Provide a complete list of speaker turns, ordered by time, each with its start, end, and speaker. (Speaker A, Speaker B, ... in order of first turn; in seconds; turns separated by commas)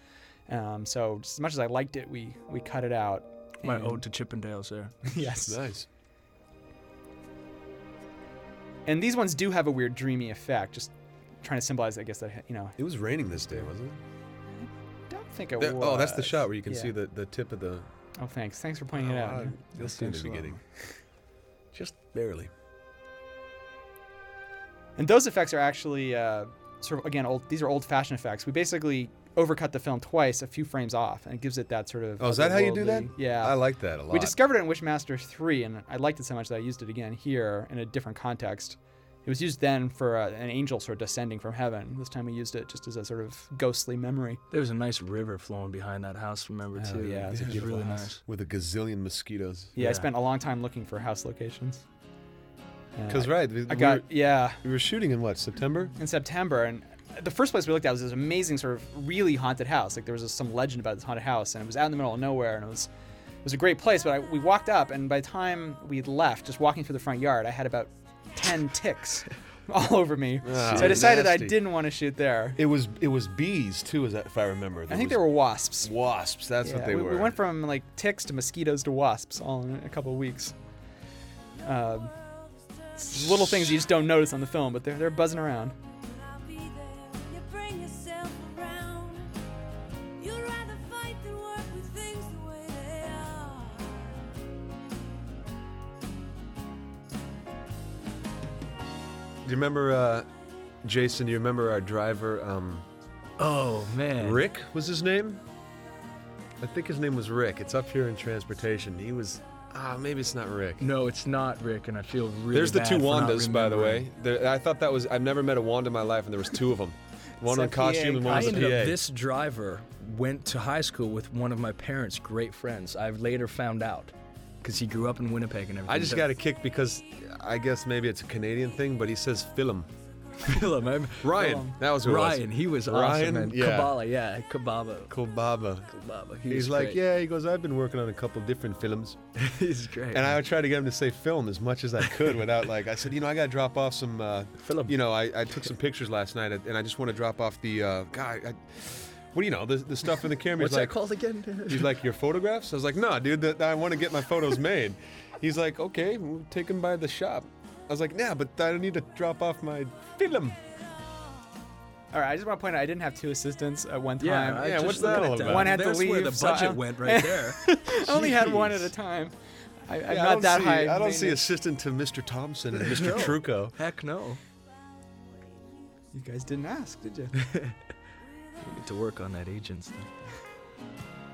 Speaker A: 0.5-4.0, Speaker B: 3.6-5.0, Speaker A: 5.1-5.6, Speaker C: 5.5-5.9, Speaker A: 8.9-10.9, Speaker A: 11.4-12.8, Speaker C: 12.8-14.0, Speaker A: 14.5-16.9, Speaker C: 15.6-17.9, Speaker A: 18.2-20.6, Speaker C: 18.9-20.6, Speaker C: 21.7-22.5, Speaker A: 25.0-44.4, Speaker C: 32.2-34.4, Speaker B: 44.5-48.2, Speaker A: 46.8-48.2, Speaker C: 47.3-49.7, Speaker A: 49.8-51.8, Speaker B: 49.8-50.1, Speaker A: 53.0-54.6, Speaker C: 53.1-56.0, Speaker A: 56.0-62.9, Speaker A: 63.4-72.6, Speaker C: 70.4-71.7, Speaker B: 70.6-71.1, Speaker C: 72.6-77.4, Speaker A: 74.9-75.9, Speaker A: 76.6-80.5, Speaker A: 81.6-82.1, Speaker A: 83.0-85.8, Speaker D: 86.0-89.3, Speaker D: 90.2-94.2, Speaker C: 99.4-100.3, Speaker C: 100.8-102.9, Speaker B: 103.4-104.4, Speaker C: 104.2-105.4, Speaker C: 106.6-110.8, Speaker B: 110.8-114.1, Speaker C: 112.5-119.0, Speaker A: 117.5-118.7, Speaker B: 118.3-126.3, Speaker C: 125.9-129.9, Speaker B: 130.4-135.2, Speaker C: 131.2-134.0, Speaker A: 131.3-131.8, Speaker C: 135.1-139.2, Speaker B: 135.9-137.0, Speaker B: 139.4-140.3, Speaker C: 140.1-151.0, Speaker B: 144.6-145.0, Speaker B: 150.6-152.0, Speaker C: 151.7-160.6, Speaker A: 162.1-169.3, Speaker B: 164.2-168.0, Speaker C: 164.6-165.8, Speaker C: 168.0-168.8, Speaker A: 169.9-171.5, Speaker C: 170.1-173.8, Speaker B: 172.8-174.4, Speaker A: 176.1-177.4, Speaker B: 177.4-177.8, Speaker B: 178.6-180.1